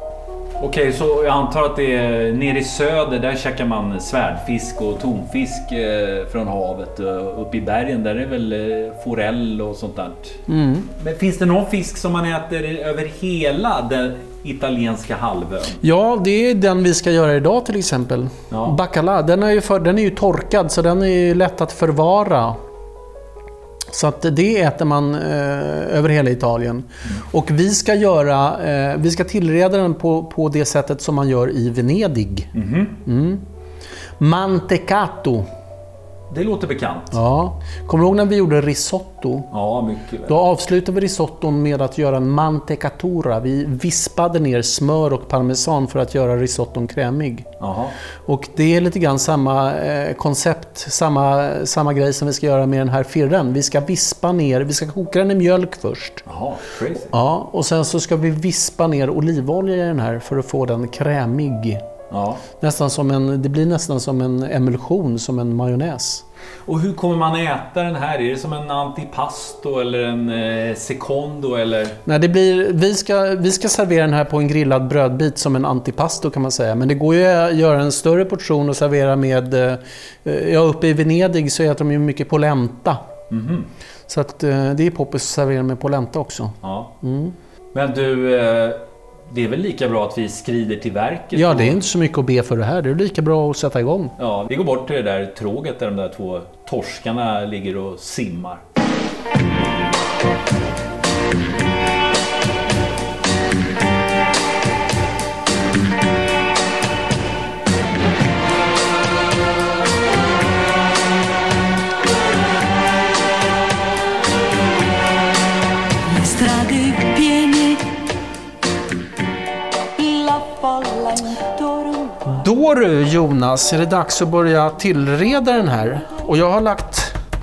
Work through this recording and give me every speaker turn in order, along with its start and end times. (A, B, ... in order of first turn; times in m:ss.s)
0:00.6-0:10.4 A
0:10.5-0:10.9 B
0:11.0-0:15.8 A
0:15.8-0:22.6 B
0:18.5-0:18.8 A
0:23.9-0:32.5 B
0:32.5-0:33.0 A
0:33.0-0:33.4 B
0:34.2-0:35.5 B
0:36.3-0:37.2 A
0:37.1-0:39.5 B
0:39.5-0:40.4 A
0:40.3-0:47.5 B
0:47.6-0:48.0 A
0:48.3-0:56.2 B
0:56.3-0:57.1 A
0:57.1-1:01.8 B
1:02.1-1:02.4 A
1:02.6-1:06.2 B
1:06.7-1:12.0 A
1:12.0-1:23.0 B
1:23.3-1:23.7 A
1:24.1-1:27.4 B
1:26.6-1:26.9 A
1:27.7-1:31.8 A
1:31.3-1:34.2 B
1:34.2-1:38.6 A
1:56.0-1:58.1 C
2:00.0-2:02.3 C
2:02.3-2:07.2 B